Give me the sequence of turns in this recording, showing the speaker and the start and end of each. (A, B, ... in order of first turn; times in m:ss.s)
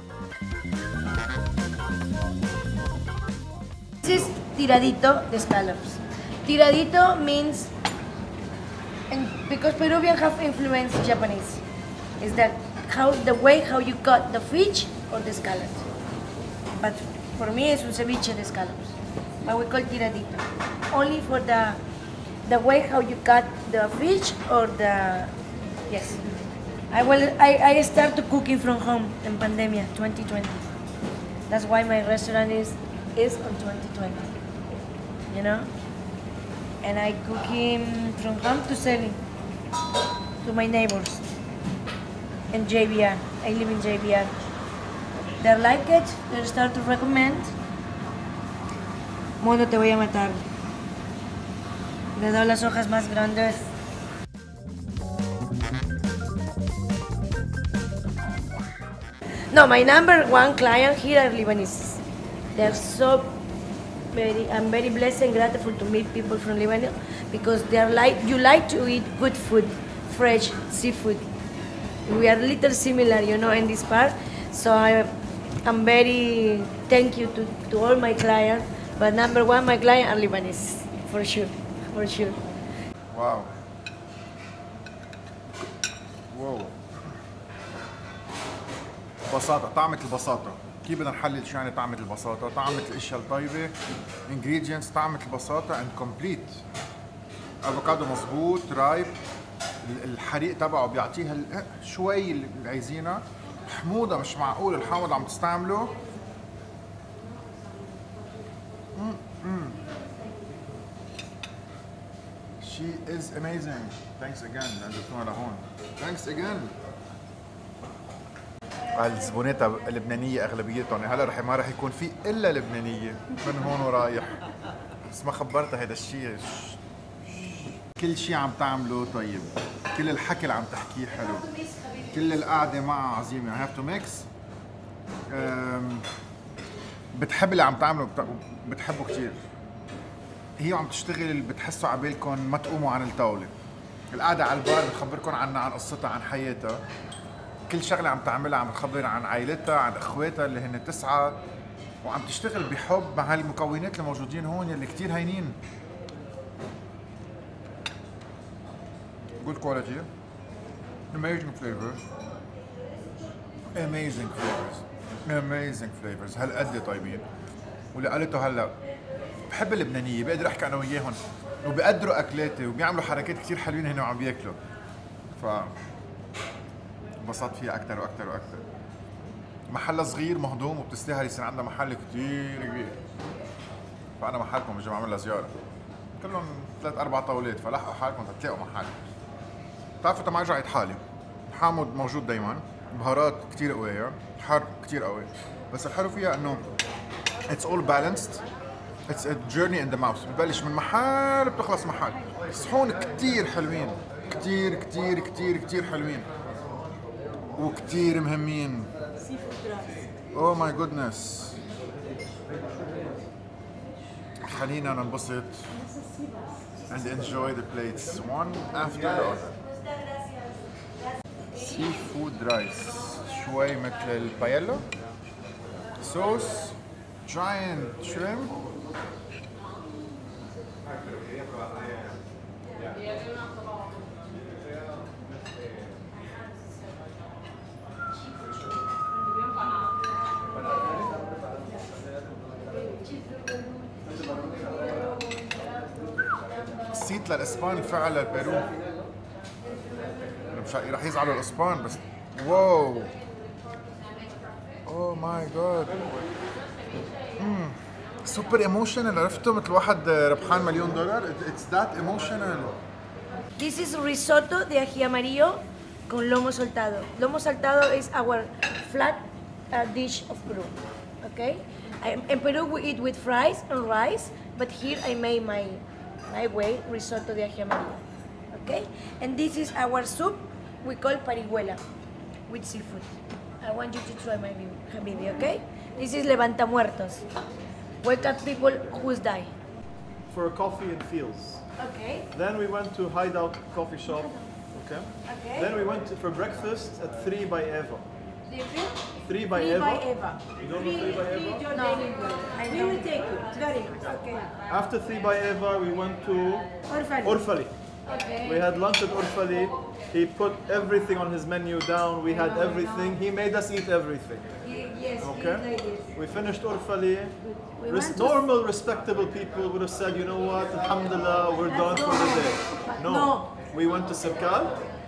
0:04.0-0:07.7 A
0:09.1-0:11.6 A
0:12.2-0:15.9 A
0:16.7-0:21.8 A
0:22.4-0:25.3 A
0:25.9-0:26.2 A
0:26.9-0:30.6 A
0:31.5-0:34.3 A
0:35.3-0:35.7 A
0:36.8-0:39.2 A
0:40.4-0:41.2 A
0:42.5-0:44.3 A
0:45.4-0:47.5 A
0:49.4-0:50.4 A
0:52.2-0:53.7 A
0:59.5-1:02.0 A
1:02.5-1:03.4 A
1:04.1-1:11.3 A
1:12.1-1:22.4 A
1:23.1-1:23.5 B
1:26.3-1:26.8 B
1:29.3-1:33.8 B
1:34.3-1:36.6 B
1:37.6-1:39.2 B
1:39.8-1:46.0 B
1:48.9-1:49.8 B
1:52.6-1:56.7 B
1:58.9-2:04.4 B
2:05.0-2:06.8 B
2:07.9-2:11.5 B
2:11.5-2:12.1 A
2:12.1-2:14.3 B
2:15.3-2:16.1 B
2:17.1-2:19.4 B
2:20.6-2:23.5 B
2:24.1-2:26.8 B
2:27.7-2:31.4 B
2:32.0-2:35.6 B
2:39.4-2:40.1 B
2:41.1-2:42.0 B
2:43.7-2:47.3 B
2:47.9-2:48.8 B
2:49.5-2:54.6 B
2:55.4-2:55.8 B
2:57.2-2:58.6 B
2:59.7-3:03.0 B
3:04.2-3:05.6 B
3:06.2-3:09.0 B
3:10.0-3:16.7 B
3:17.5-3:18.4 B
3:19.1-3:26.3 B
3:27.6-3:28.9 B
3:29.2-3:30.0 C
3:30.3-3:31.6 B
3:34.4-3:35.7 B
3:36.9-3:39.6 B
3:41.5-3:44.9 B
3:46.0-3:48.6 B
4:06.9-4:08.7 B
4:10.5-4:13.1 B
4:14.9-4:16.0 B
4:17.4-4:22.8 B
4:23.6-4:41.8 A
4:42.5-4:47.2 A
4:48.0-4:49.5 A
4:50.3-4:51.6 D
4:51.8-4:52.3 A
4:52.3-4:58.0 D
4:55.3-4:55.7 A
4:58.5-4:59.0 A
4:59.2-5:01.7 D
4:59.5-5:04.6 C
5:01.1-5:03.4 A
5:04.7-5:07.7 D
5:06.9-5:07.4 C
5:08.1-5:08.5 A
5:08.4-5:14.6 D
5:12.3-5:13.1 C
5:14.7-5:15.9 A
5:15.2-5:24.8 D
5:15.6-5:16.0 C
5:17.7-5:18.4 C
5:21.7-5:23.5 C